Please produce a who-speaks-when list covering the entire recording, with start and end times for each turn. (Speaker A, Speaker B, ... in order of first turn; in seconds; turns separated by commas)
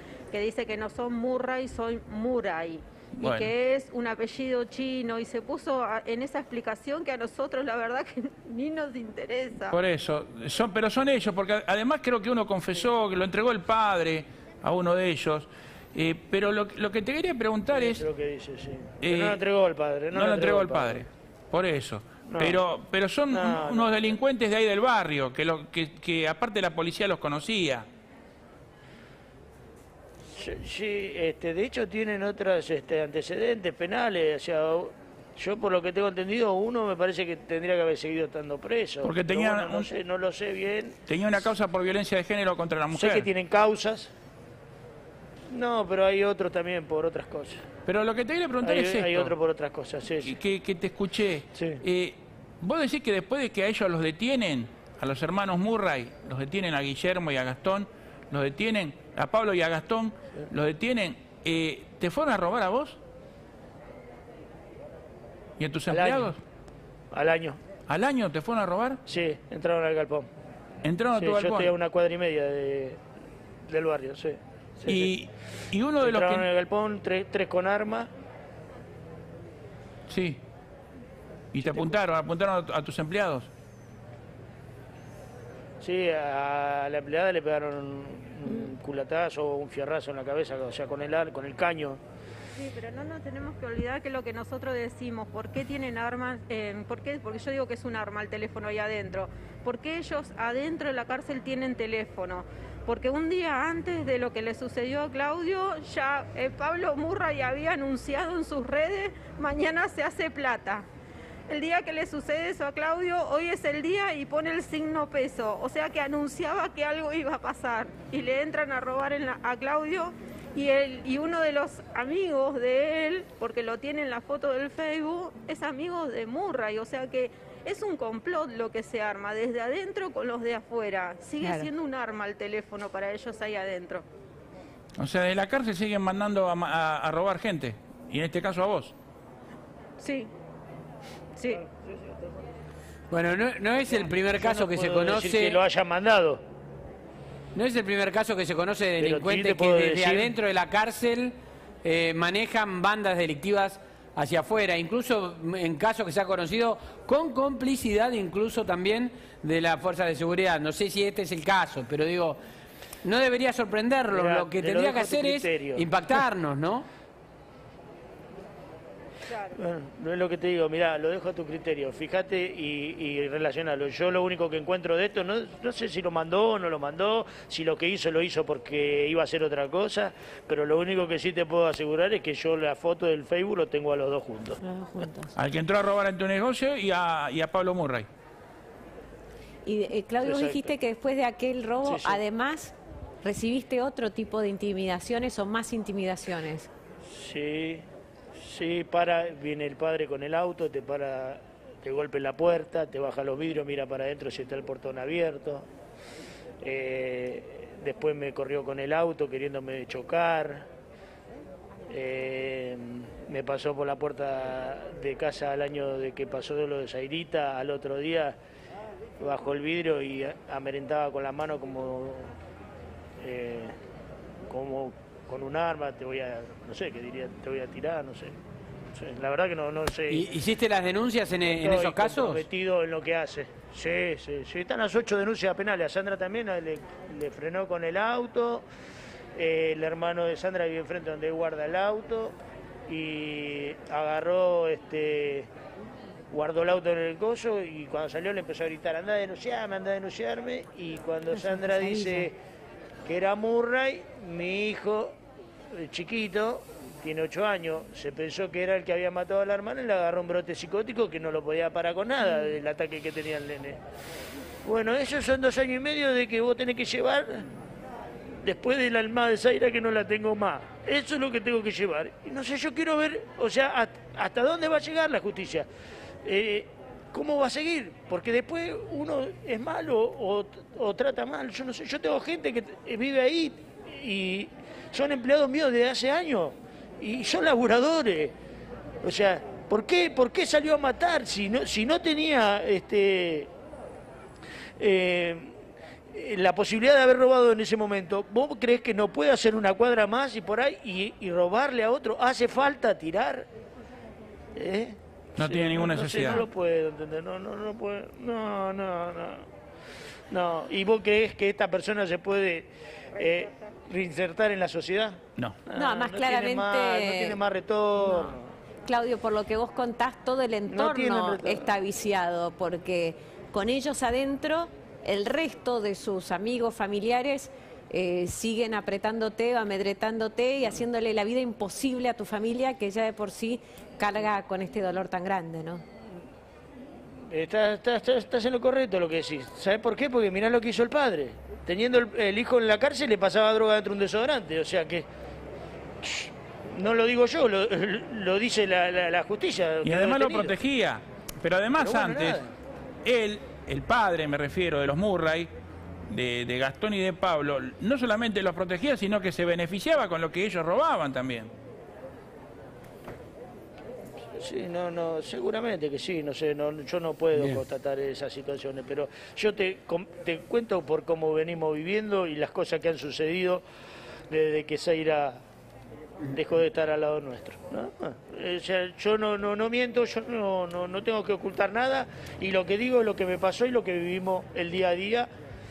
Speaker A: 0.3-9.8, Speaker B: 3.2-3.5, Speaker B: 9.7-18.0, Speaker C: 17.7-21.0, Speaker B: 19.0-19.4, Speaker B: 20.1-27.9, Speaker C: 22.2-22.6, Speaker C: 23.3-24.1, Speaker C: 30.3-41.0, Speaker B: 39.0-39.9, Speaker B: 41.1-43.3, Speaker C: 42.9-44.1, Speaker C: 45.5-47.6, Speaker B: 47.9-49.3, Speaker C: 48.6-50.3, Speaker B: 50.2-63.0, Speaker C: 51.5-51.8, Speaker B: 65.6-66.4, Speaker C: 65.9-66.3, Speaker C: 67.1-67.6, Speaker B: 67.9-69.0, Speaker C: 69.1-70.3, Speaker B: 70.8-71.7, Speaker C: 71.1-73.0, Speaker C: 73.7-75.2, Speaker B: 74.9-76.5, Speaker C: 76.0-78.1, Speaker B: 80.1-80.4, Speaker B: 81.5-83.5, Speaker C: 81.6-81.9, Speaker C: 85.8-92.0, Speaker A: 92.6-110.9, Speaker A: 111.5-134.0, Speaker D: 131.4-131.7, Speaker B: 135.0-138.9, Speaker A: 140.0-140.3, Speaker A: 141.4-141.6, Speaker E: 143.1-145.6, Speaker C: 143.8-146.4, Speaker E: 147.5-162.4, Speaker C: 149.0-150.3, Speaker E: 163.0-166.9, Speaker C: 164.1-165.9, Speaker C: 169.4-184.6, Speaker D: 184.6-185.3, Speaker B: 185.3-188.1, Speaker D: 189.7-196.7, Speaker C: 190.2-190.7, Speaker C: 191.8-192.2, Speaker C: 197.0-205.7, Speaker C: 206.6-210.7, Speaker C: 211.9-218.4, Speaker C: 219.2-222.3, Speaker C: 223.2-223.8, Speaker C: 224.5-228.3, Speaker C: 228.9-230.3, Speaker E: 230.1-232.4, Speaker C: 231.4-238.7, Speaker C: 239.3-242.3, Speaker C: 242.9-245.5, Speaker C: 246.3-252.3, Speaker D: 251.3-252.3, Speaker C: 253.0-255.1, Speaker C: 255.7-263.8, Speaker C: 264.6-267.5, Speaker C: 268.4-275.7, Speaker C: 276.2-288.3, Speaker C: 289.0-293.5, Speaker C: 294.8-295.6, Speaker C: 296.1-303.5, Speaker C: 304.5-309.5, Speaker B: 305.4-306.4, Speaker C: 310.3-318.5, Speaker B: 315.4-315.6, Speaker D: 315.7-317.4, Speaker D: 318.9-335.8, Speaker C: 320.7-321.7, Speaker C: 337.3-345.1, Speaker C: 346.0-350.6, Speaker B: 349.8-352.4, Speaker C: 351.8-352.4, Speaker B: 353.0-355.5, Speaker B: 356.1-361.5, Speaker C: 364.4-373.6, Speaker E: 367.4-367.6, Speaker C: 374.3-375.4, Speaker C: 376.3-385.3